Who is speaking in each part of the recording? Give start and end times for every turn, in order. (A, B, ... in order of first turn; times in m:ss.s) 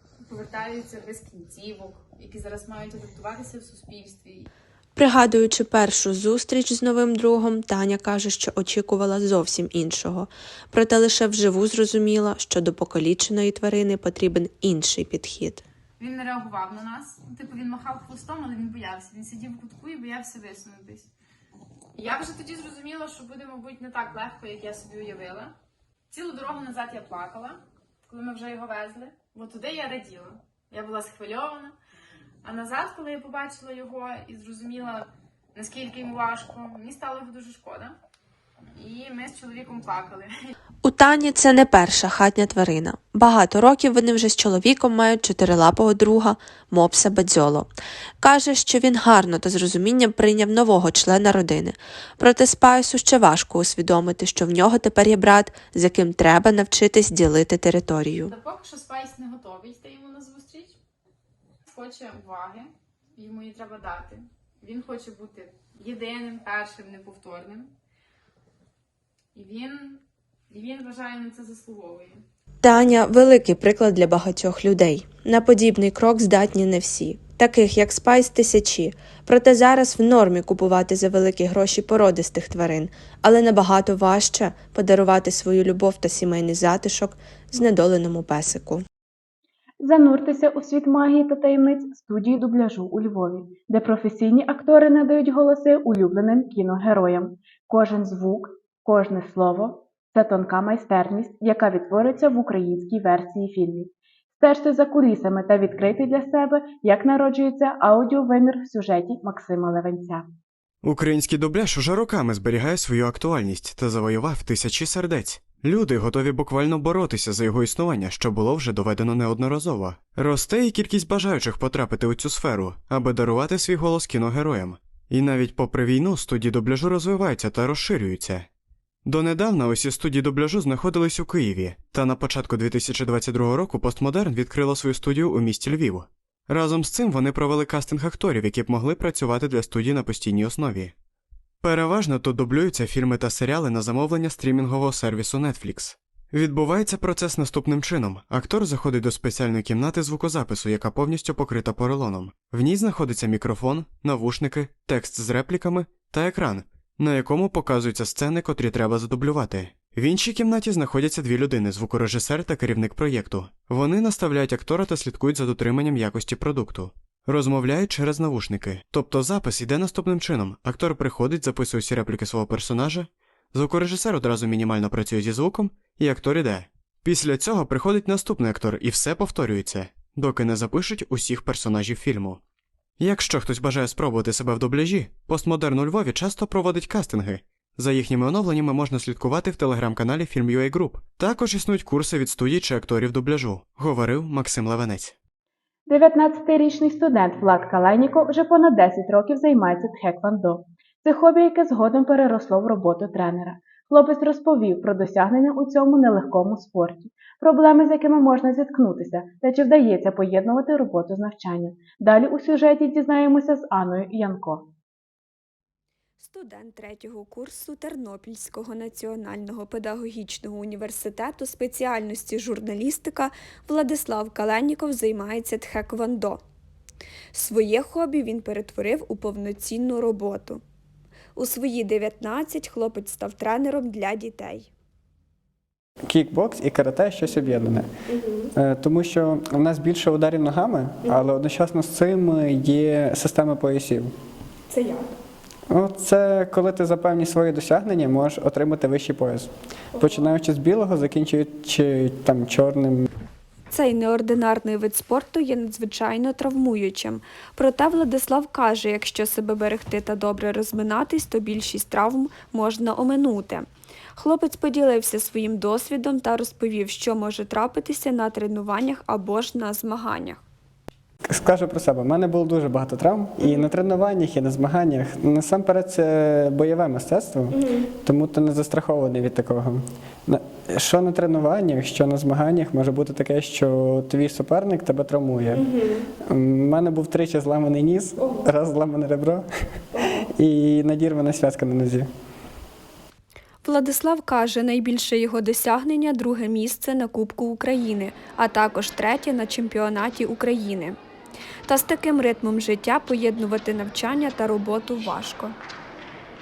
0:00.2-0:04.5 A
0:05.0-0:15.6 B
0:16.0-0:21.1 A
0:22.0-0:25.5 A
0:26.1-0:31.8 A
0:32.4-0:38.0 A
0:38.8-0:40.5 A
0:40.8-0:58.3 B
0:58.3-1:00.8 A
1:01.6-1:07.7 A
1:09.4-1:12.2 A
1:12.6-1:28.8 B
1:29.8-1:50.3 C
1:50.8-2:08.5 D
2:09.0-2:20.9 D
2:21.6-3:02.4 D
3:03.0-3:15.2 D
3:15.9-3:34.7 C
3:36.2-3:46.4 E
3:47.3-3:50.6 E
3:51.4-3:54.7 E
3:56.1-3:57.9 F
3:58.6-4:04.1 F
4:05.7-4:13.1 F
4:13.7-4:30.4 E
4:31.3-4:45.7 F
4:46.2-4:52.1 F
4:53.6-5:01.0 E
5:01.7-5:05.6 E